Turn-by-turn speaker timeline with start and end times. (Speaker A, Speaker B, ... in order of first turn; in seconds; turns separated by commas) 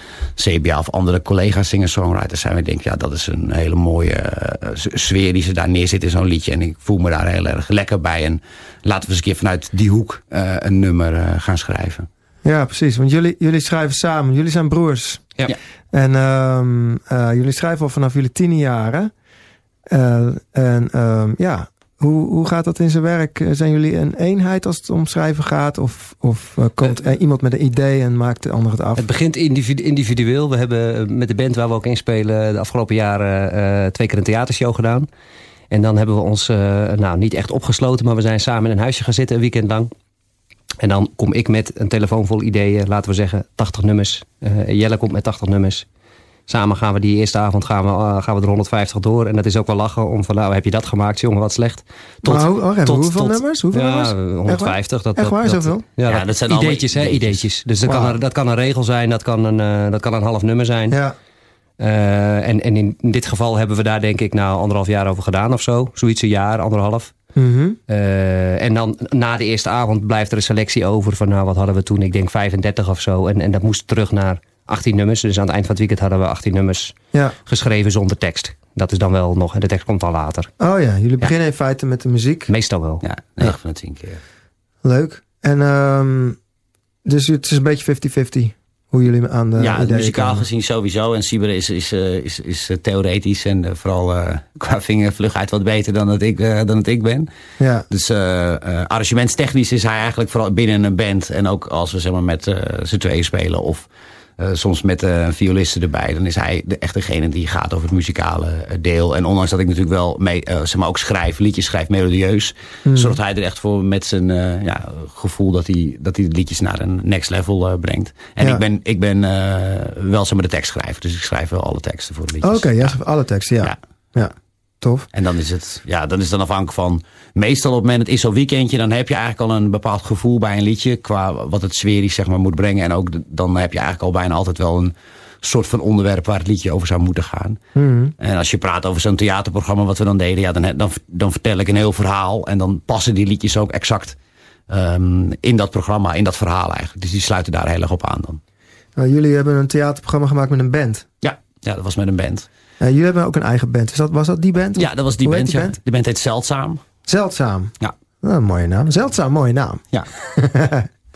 Speaker A: 0.4-12.1, Speaker B: 12.4-15.3, Speaker B: 15.9-19.1, Speaker B: 19.9-29.1, Speaker C: 28.9-35.1, Speaker C: 35.7-39.9, Speaker C: 40.8-45.9, Speaker C: 46.5-61.0, Speaker B: 52.2-55.8, Speaker A: 56.1-57.4, Speaker B: 57.8-58.2, Speaker B: 60.9-61.1, Speaker C: 61.8-67.1, Speaker B: 67.3-67.8, Speaker C: 67.9-80.5, Speaker B: 80.6-82.5, Speaker C: 82.5-83.0, Speaker A: 83.1-84.2, Speaker B: 84.8-86.4, Speaker B: 87.0-90.5, Speaker A: 89.6-97.3, Speaker B: 97.6-97.9, Speaker A: 97.9-103.9, Speaker A: 104.4-122.9, Speaker B: 112.8-113.2, Speaker B: 118.4-118.6, Speaker B: 122.4-125.1, Speaker A: 125.1-134.9, Speaker A: 135.4-137.6, Speaker B: 137.7-138.1, Speaker A: 138.2-144.1, Speaker A: 144.7-148.4, Speaker B: 148.9-151.1, Speaker A: 151.2-152.4, Speaker B: 152.8-155.8, Speaker A: 154.8-156.8, Speaker B: 157.1-160.9